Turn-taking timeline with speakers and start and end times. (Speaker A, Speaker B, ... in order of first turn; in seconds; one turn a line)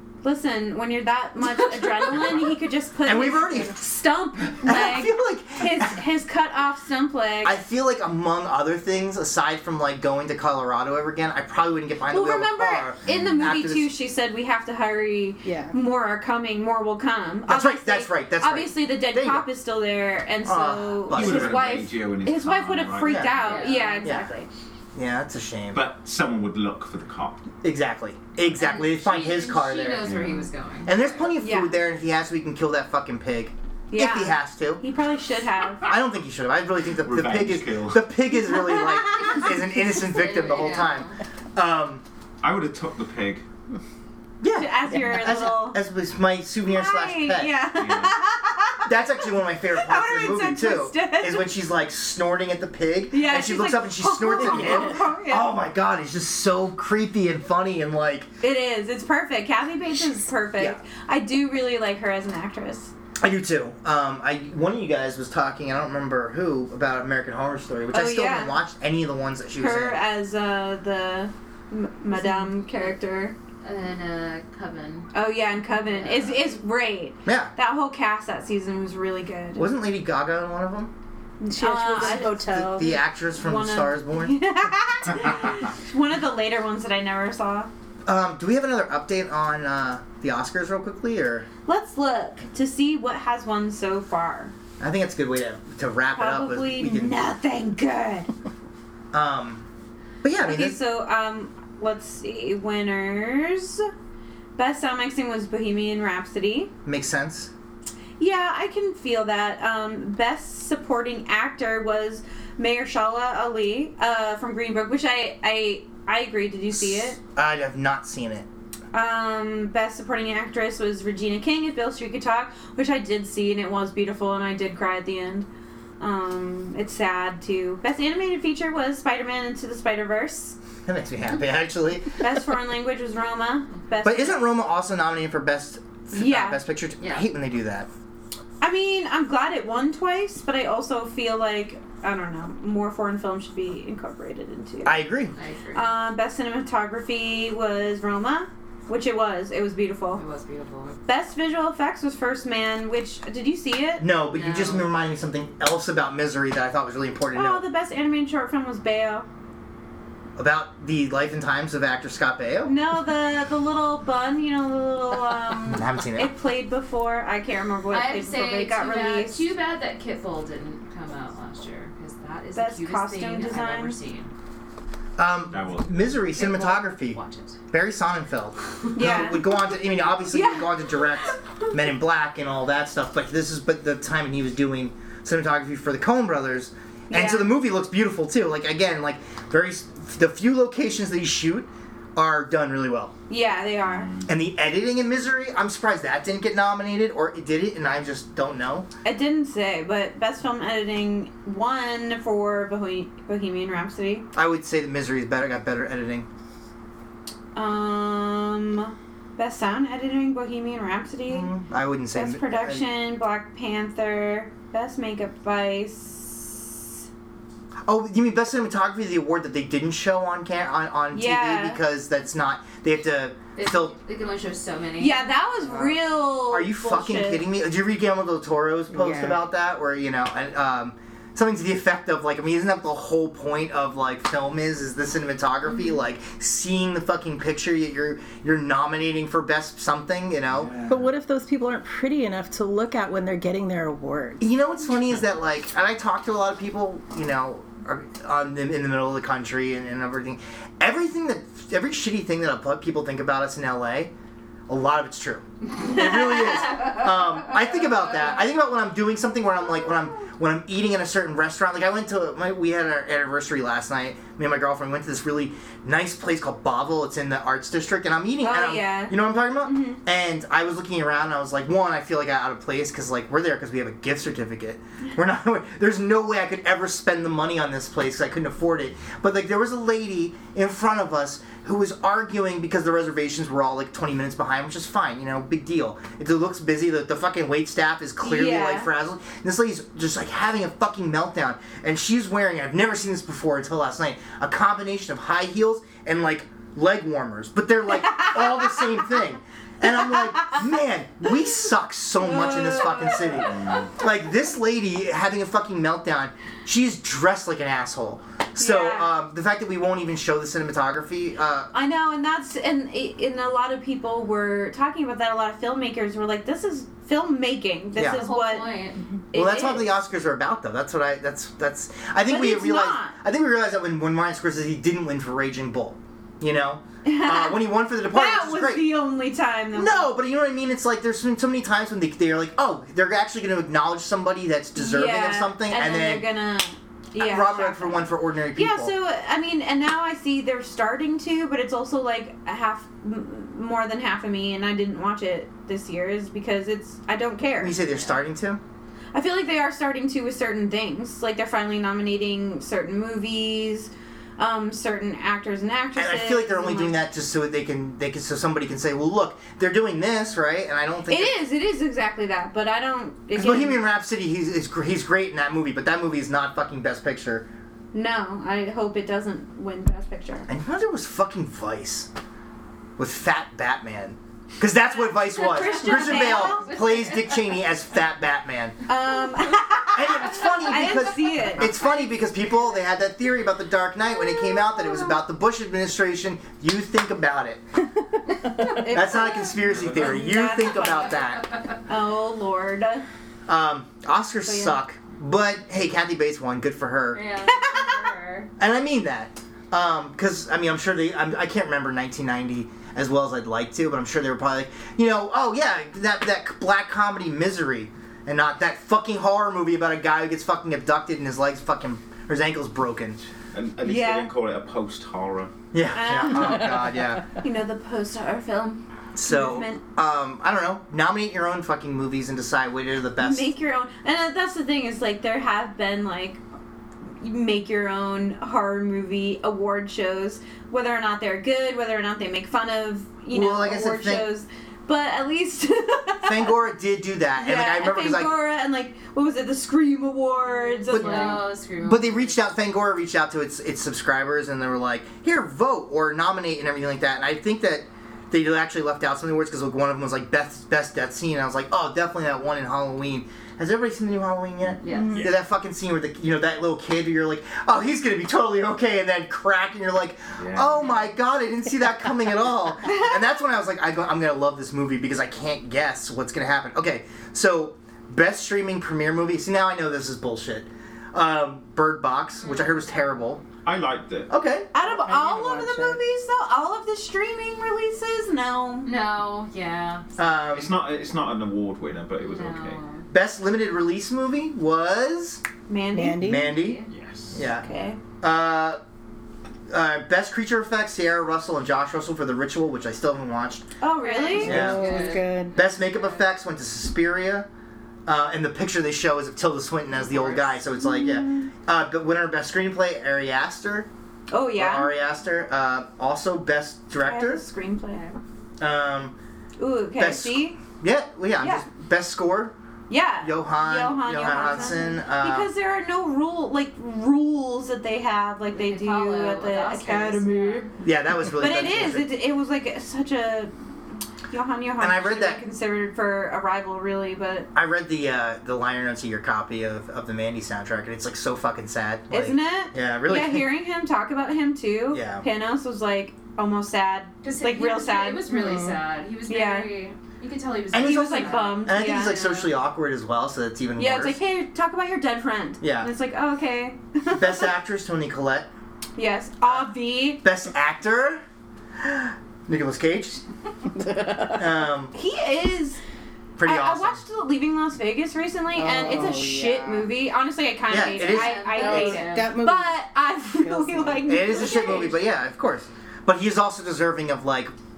Speaker A: 0.2-7.6
Speaker B: 3.0-3.8
Speaker B: 4.6-6.0
Speaker B: 7.4-13.9
Speaker A: 12.1-24.5
Speaker C: 13.1-13.4
Speaker D: 15.4-15.8
Speaker B: 17.5-19.5
Speaker B: 20.4-21.6
Speaker C: 21.1-23.6
Speaker B: 23.0-24.3
Speaker E: 23.4-24.1
Speaker B: 24.9-25.9
Speaker C: 25.7-27.5
Speaker B: 27.6-30.1
Speaker E: 28.5-31.3
Speaker C: 30.1-30.5
Speaker B: 30.9-34.8
Speaker A: 31.4-31.8
Speaker A: 33.9-35.9
Speaker B: 35.9-42.0
Speaker C: 37.0-38.1
Speaker A: 38.5-39.5
Speaker E: 40.1-41.2
Speaker C: 42.4-43.4
Speaker B: 44.4-47.6
Speaker A: 44.5-45.8
Speaker A: 46.7-49.0
Speaker C: 47.8-48.2
Speaker B: 48.9-58.3
Speaker A: 49.7-51.5
Speaker A: 53.1-55.5
Speaker A: 58.4-62.9
Speaker B: 63.2-70.0
Speaker A: 67.9-68.6
Speaker A: 69.6-73.3
Speaker D: 72.1-72.5
Speaker E: 73.6-75.1
Speaker A: 75.1-79.7
Speaker E: 75.7-76.5
Speaker B: 77.3-77.5
Speaker B: 79.5-80.9
Speaker A: 81.4-87.7
Speaker D: 81.5-83.0
Speaker B: 81.9-84.4
Speaker B: 88.1-91.5
Speaker A: 91.7-94.5
Speaker B: 94.8-97.2
Speaker A: 96.1-98.3
Speaker B: 99.1-99.7
Speaker B: 100.2-100.8
Speaker A: 100.4-103.9
Speaker A: 104.6-106.7
Speaker B: 106.9-107.5
Speaker A: 108.2-117.2
Speaker B: 116.7-118.5
Speaker A: 118.9-125.5
Speaker A: 126.0-130.6
Speaker B: 130.9-132.2
Speaker A: 132.2-134.4
Speaker B: 134.0-137.9
Speaker A: 136.1-136.6
Speaker E: 137.0-137.3
Speaker A: 138.6-145.0
Speaker B: 144.8-145.3
Speaker E: 145.3-145.9
Speaker A: 145.7-150.2
Speaker E: 150.2-151.0
Speaker A: 151.1-154.1
Speaker B: 154.0-157.6
Speaker E: 154.3-154.9
Speaker A: 157.3-159.3
Speaker B: 160.4-162.8
Speaker A: 162.7-169.4
Speaker B: 165.7-166.3
Speaker E: 167.9-174.3
Speaker A: 172.5-174.0
Speaker B: 175.2-177.2
Speaker C: 175.5-176.1
Speaker E: 176.3-177.6
Speaker B: 177.7-193.1
Speaker A: 178.9-179.4
Speaker A: 180.3-181.3
Speaker A: 187.1-187.5
Speaker A: 193.3-194.1
Speaker C: 193.8-194.3
Speaker B: 194.3-198.9
Speaker A: 199.1-204.3
Speaker B: 204.3-206.3
Speaker A: 207.6-211.5
Speaker B: 211.3-212.9
Speaker A: 212.1-216.9
Speaker B: 217.9-224.0
Speaker A: 221.1-221.8
Speaker E: 223.6-225.3
Speaker A: 225.0-227.4
Speaker B: 225.7-226.0
Speaker B: 226.5-240.8
Speaker D: 228.9-229.4
Speaker C: 240.5-241.1
Speaker D: 240.9-244.4
Speaker B: 244.4-254.1
Speaker B: 254.7-311.7
Speaker A: 268.4-270.0
Speaker A: 288.2-288.9
Speaker A: 298.0-298.9
Speaker A: 299.9-300.6
Speaker A: 302.2-303.5
Speaker C: 303.5-303.9
Speaker A: 308.6-309.1
Speaker A: 311.7-318.7
Speaker B: 318.0-318.2
Speaker E: 318.0-319.0
Speaker A: 319.3-319.9
Speaker B: 319.3-328.9
Speaker A: 322.3-323.2
Speaker A: 327.1-330.1
Speaker B: 329.7-336.3
Speaker A: 334.8-347.8
Speaker B: 337.2-338.9
Speaker B: 347.6-348.6
Speaker A: 349.1-357.0
Speaker B: 356.0-361.4
Speaker A: 361.1-363.8
Speaker B: 363.4-367.5
Speaker A: 367.9-370.5
Speaker B: 370.5-372.1
Speaker B: 373.0-378.8
Speaker A: 374.9-376.7
Speaker E: 375.5-377.4
Speaker A: 378.9-381.8
Speaker B: 379.9-387.6
Speaker A: 384.6-385.0
Speaker A: 388.6-391.2
Speaker B: 388.9-391.4
Speaker C: 389.7-390.1
Speaker A: 391.9-393.1
Speaker B: 393.5-397.3
Speaker A: 394.4-394.8
Speaker E: 397.1-398.5
Speaker A: 397.5-398.0
Speaker B: 398.6-413.2
Speaker C: 413.5-415.5
Speaker A: 413.8-414.3
Speaker B: 415.7-417.2
Speaker A: 415.9-416.8
Speaker A: 417.4-419.8
Speaker B: 419.1-423.5
Speaker A: 423.2-426.4
Speaker A: 427.2-436.5
Speaker B: 433.3-434.3
Speaker B: 436.2-438.4
Speaker A: 437.4-441.5
Speaker E: 440.5-442.4
Speaker B: 440.9-473.4
Speaker E: 454.8-455.2
Speaker D: 454.9-455.3
Speaker C: 460.4-460.9
Speaker E: 472.4-473.0
Speaker C: 473.6-474.3
Speaker B: 474.3-474.7
Speaker A: 474.7-478.9
Speaker D: 474.8-476.0
Speaker E: 478.9-480.0
Speaker B: 480.2-480.7
Speaker C: 480.5-482.8
Speaker E: 482.2-483.1
Speaker B: 483.1-485.4
Speaker A: 485.7-486.4
Speaker D: 485.9-486.6
Speaker B: 486.2-486.8
Speaker E: 486.5-486.9
Speaker C: 486.9-487.4
Speaker B: 487.3-487.7
Speaker A: 487.4-488.0
Speaker B: 488.2-488.8
Speaker B: 489.7-493.6
Speaker A: 493.8-494.7
Speaker E: 494.0-496.2
Speaker D: 494.3-495.6
Speaker B: 494.4-495.0
Speaker B: 495.5-497.5
Speaker B: 498.1-503.9
Speaker E: 500.0-500.6
Speaker A: 500.8-501.5
Speaker A: 504.3-504.9
Speaker B: 504.6-507.4
Speaker A: 507.0-508.2
Speaker B: 508.6-509.1
Speaker A: 509.6-510.6
Speaker B: 510.0-512.5
Speaker A: 511.4-511.6
Speaker A: 512.9-520.7
Speaker B: 513.2-515.5
Speaker E: 518.5-520.7
Speaker B: 520.8-522.1
Speaker A: 521.4-523.5
Speaker A: 524.3-527.5
Speaker B: 524.8-525.4
Speaker B: 527.5-533.5
Speaker A: 532.1-538.3
Speaker B: 534.9-535.2
Speaker E: 537.2-541.6
Speaker D: 538.3-538.8
Speaker A: 539.3-539.7
Speaker B: 540.7-544.2
Speaker A: 540.8-542.5
Speaker A: 543.8-547.5
Speaker B: 545.6-545.9
Speaker B: 547.1-548.5
Speaker A: 549.0-550.2
Speaker B: 549.4-549.7
Speaker B: 550.2-551.2
Speaker B: 551.8-553.2
Speaker D: 553.8-554.3
Speaker B: 554.3-555.0
Speaker A: 555.0-555.8
Speaker B: 556.4-557.0
Speaker A: 556.4-565.1
Speaker D: 558.5-559.9
Speaker B: 560.7-561.5
Speaker E: 560.7-562.4
Speaker D: 561.5-562.8
Speaker D: 563.3-564.7
Speaker B: 564.1-567.5